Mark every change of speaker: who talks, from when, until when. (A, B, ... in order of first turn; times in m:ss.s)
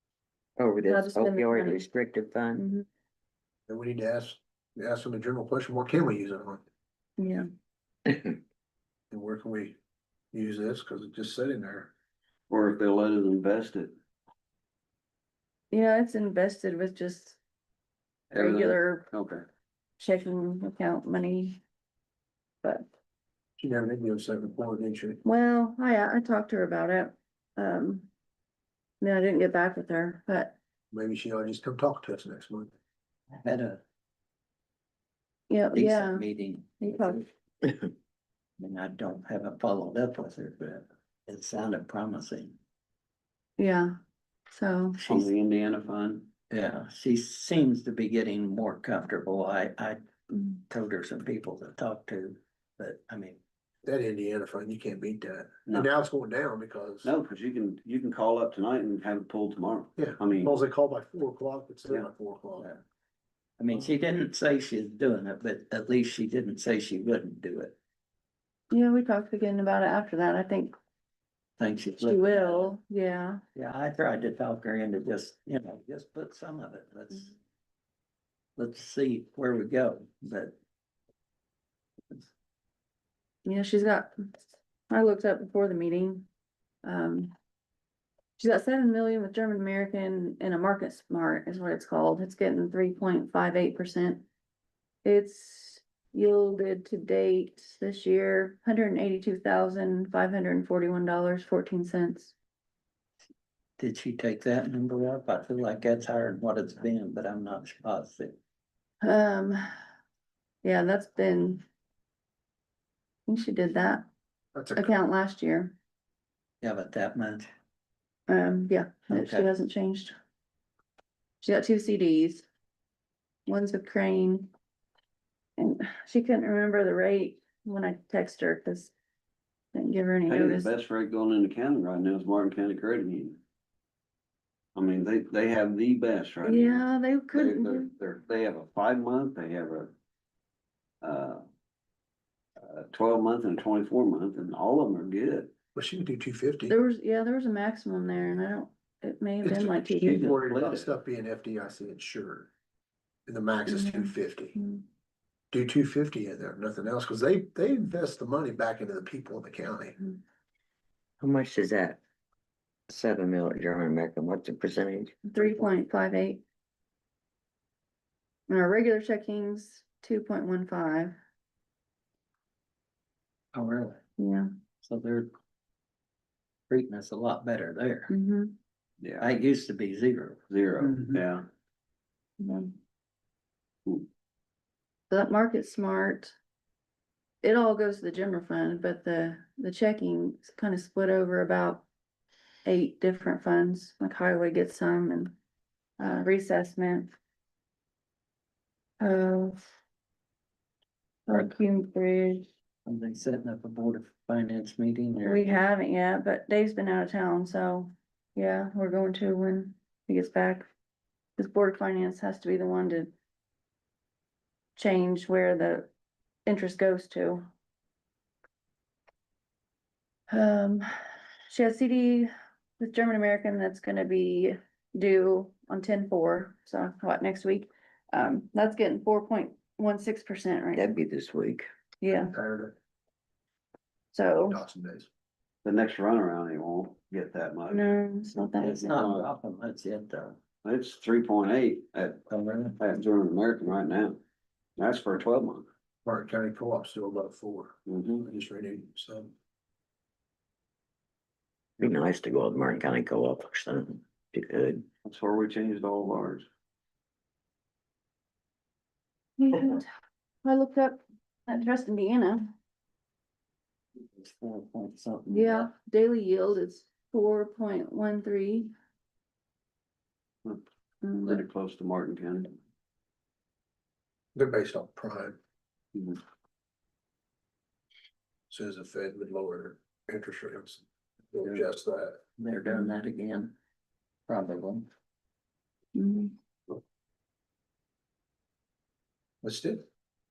0:00.6-0:02.6 A
0:00.8-0:01.8 B
0:02.6-0:02.9 B
0:03.7-0:06.6 C
0:07.2-0:07.5 B
0:08.1-0:08.4 A
0:09.1-0:09.8 C
0:10.3-0:11.9 C
0:12.5-0:13.9 D
0:15.7-0:17.4 B
0:18.3-0:19.4 D
0:18.3-0:19.1 B
0:20.0-0:21.6 B
0:22.6-0:22.9 B
0:23.6-0:25.2 C
0:25.2-0:28.1 B
0:29.0-0:30.6 B
0:30.9-0:32.7 C
0:33.3-0:33.8 E
0:35.5-0:36.2 B
0:35.7-0:37.2 E
0:36.8-0:37.3 B
0:38.6-0:42.6 E
0:43.6-0:44.0 B
0:44.5-0:45.0 B
0:45.0-0:45.3 E
0:45.1-0:46.3 D
0:46.5-0:50.0 E
0:50.5-0:53.4 E
0:53.8-0:57.1 C
0:57.0-1:00.6 D
1:00.0-1:02.7 C
1:02.6-1:02.8 E
1:03.6-1:07.8 E
1:08.7-1:10.7 B
1:11.6-1:12.7 E
1:12.0-1:13.4 B
1:13.6-1:17.4 E
1:18.6-1:20.6 E
1:23.4-1:24.4 B
1:24.9-1:26.3 B
1:26.8-1:27.3 B
1:28.4-1:34.3 B
1:35.0-1:42.4 B
1:43.8-1:48.4 E
1:49.0-1:49.6 B
1:50.6-1:51.6 B
1:53.3-1:54.1 B
1:54.6-1:55.0 C
1:54.8-1:55.8 B
1:56.6-1:57.5 E
1:58.3-2:00.1 B
1:59.1-1:59.5 E
2:01.4-2:02.5 B
2:03.5-2:04.5 B
2:05.6-2:08.9 B
2:09.7-2:10.7 B
2:10.3-2:13.4 D
2:14.8-2:20.0 D
2:16.4-2:17.9 B
2:21.0-2:21.4 D
2:22.6-2:25.5 D
2:25.8-2:26.8 C
2:26.7-2:30.3 B
2:29.4-2:32.5 C
2:30.0-2:30.9 D
2:33.3-2:34.6 C
2:33.7-2:34.8 B
2:35.5-2:40.0 C
2:41.2-2:42.0 A
2:42.9-2:45.2 A
2:45.3-2:46.4 B
2:48.5-2:51.2 B
2:53.5-2:54.0 E
2:54.2-2:54.5 B
2:54.8-2:55.3 E
2:56.7-2:58.1 E
2:58.1-2:58.6 B
2:59.0-2:59.3 D
2:59.2-3:01.2 E
3:00.5-3:01.5 D
3:02.4-3:02.7 B
3:05.1-3:06.4 B
3:07.4-3:11.9 B
3:12.6-3:15.4 B
3:16.0-3:17.1 B
3:19.0-3:19.6 B
3:21.3-3:22.5 B
3:22.9-3:25.4 E
3:25.2-3:30.7 B
3:31.4-3:33.1 B
3:34.8-3:35.9 B
3:36.5-3:37.5 B
3:40.3-3:40.9 B
3:41.5-3:50.9 B
3:50.7-3:51.7 A
3:52.0-3:52.3 B
3:52.3-3:52.8 C
3:54.1-3:54.6 B
3:54.5-3:55.1 C
3:55.6-3:59.3 D
3:57.7-3:59.0 B
3:58.6-4:00.4 E
4:00.6-4:02.2 D
4:02.3-4:02.8 E
4:02.8-4:04.2 D
4:04.8-4:05.7 D
4:06.0-4:09.3 C
4:07.9-4:08.3 D
4:11.8-4:14.9 A
4:15.0-4:16.5 D
4:19.4-4:19.9 B
4:20.4-4:22.5 B
4:24.0-4:25.7 E
4:25.3-4:28.7 B
4:31.0-4:31.4 B
4:31.2-4:32.6 D
4:34.4-4:35.4 C
4:35.9-4:36.2 D
4:38.5-4:42.2 C
4:42.4-4:43.6 E
4:44.3-4:44.9 E
4:46.0-4:46.3 B
4:49.4-4:49.8 C